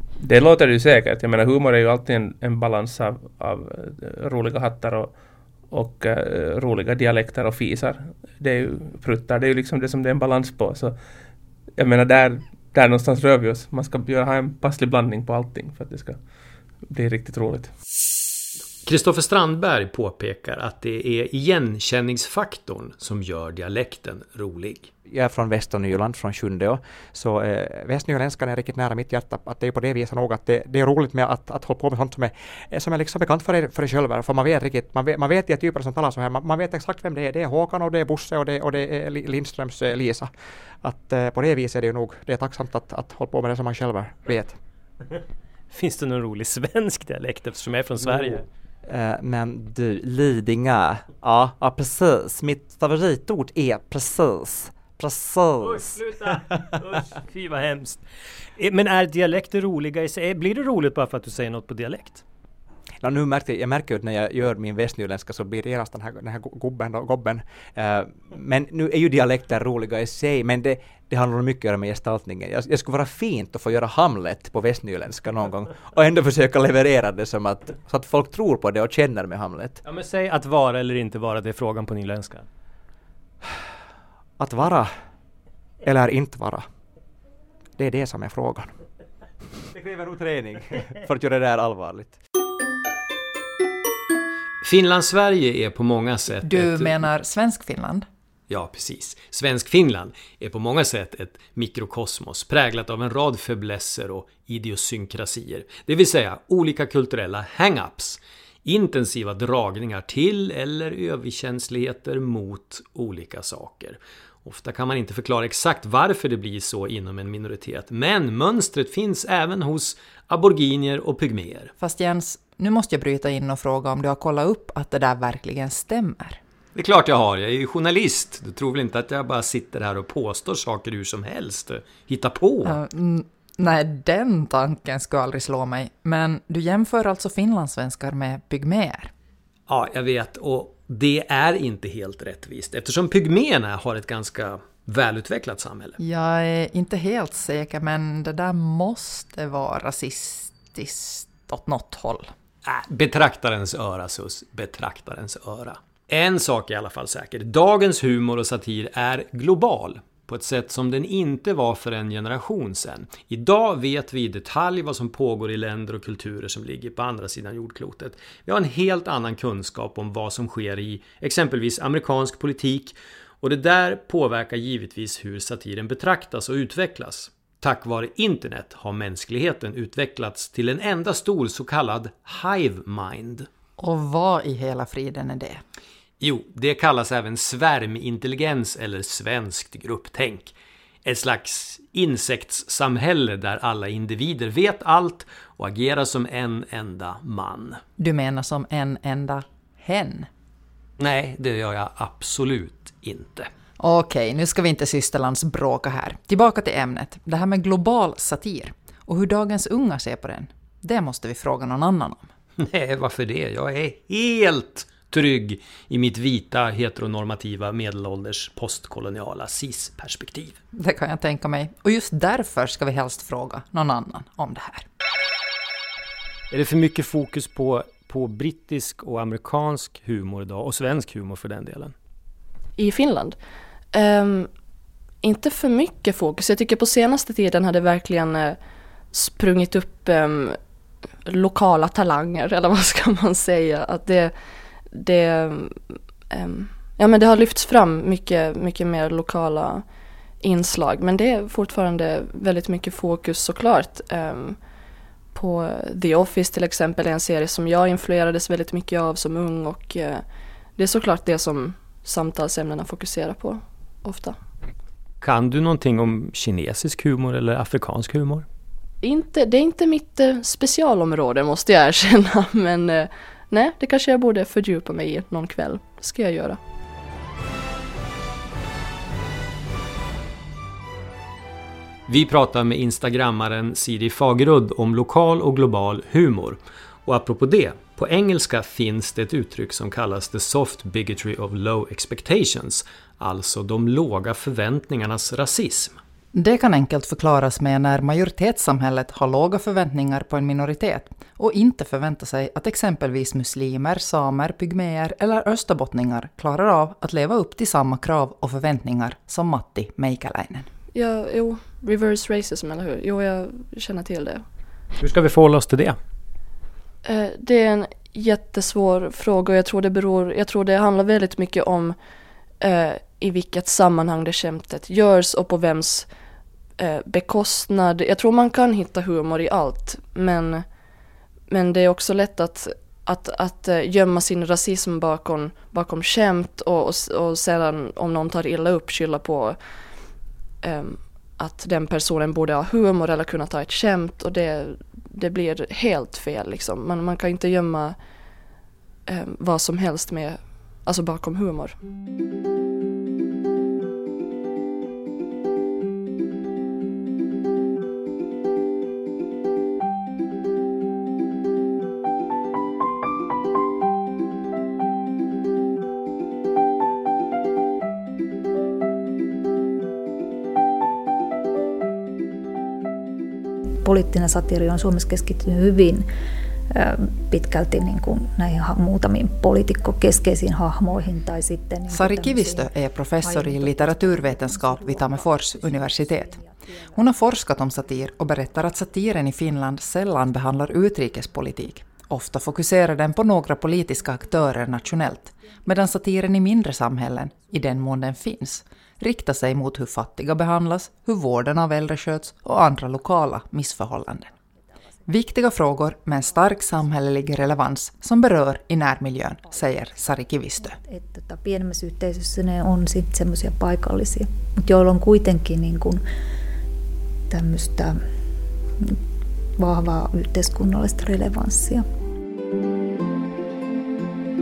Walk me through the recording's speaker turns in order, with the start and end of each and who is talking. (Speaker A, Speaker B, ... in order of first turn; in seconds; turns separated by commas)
Speaker A: 0.2-5.2, Speaker A: 5.7-11.0, Speaker A: 11.7-16.2, Speaker A: 16.8-17.7, Speaker B: 18.8-24.9, Speaker C: 25.1-40.3, Speaker C: 40.8-44.6, Speaker D: 45.7-48.4, Speaker C: 48.9-56.1, Speaker D: 55.6-58.0, Speaker D: 58.6-62.2, Speaker C: 63.0-79.8, Speaker D: 79.8-82.5, Speaker C: 84.4-84.9, Speaker C: 85.8-86.7, Speaker C: 87.8-88.7, Speaker C: 89.7-92.2, Speaker B: 94.6-97.0, Speaker E: 96.4-98.0, Speaker B: 98.5-121.7, Speaker E: 121.8-126.4, Speaker B: 126.7-132.8, Speaker E: 132.6-139.1, Speaker B: 139.7-146.0, Speaker E: 146.0-152.3, Speaker B: 152.6-183.5, Speaker E: 183.8-185.6, Speaker B: 186.2-190.5, Speaker B: 191.0-197.8, Speaker E: 198.0-200.3, Speaker B: 201.0-203.5, Speaker E: 203.8-212.3, Speaker B: 212.6-220.6, Speaker E: 220.7-224.8, Speaker D: 226.5-231.9, Speaker F: 232.8-233.3, Speaker F: 233.9-234.5, Speaker F: 235.2-238.6, Speaker F: 239.1-240.6, Speaker F: 241.2-244.3, Speaker F: 244.9-249.8, Speaker F: 250.4-254.6, Speaker F: 255.3-260.2, Speaker F: 260.8-264.4, Speaker B: 265.2-268.4, Speaker F: 269.0-276.6, Speaker B: 282.1-296.0, Speaker E: 296.3-310.7, Speaker F: 310.9-314.4, Speaker D: 315.0-316.0, Speaker F: 317.0-321.9, Speaker F: 322.6-326.1, Speaker F: 326.8-330.6, Speaker F: 331.5-339.9, Speaker F: 340.6-348.0, Speaker F: 349.1-351.8, Speaker G: 373.8-376.1, Speaker G: 376.7-386.9, Speaker E: 381.9-386.4, Speaker E: 386.9-404.3, Speaker E: 405.1-410.8, Speaker G: 410.7-416.0, Speaker G: 417.3-418.0, Speaker G: 419.6-421.9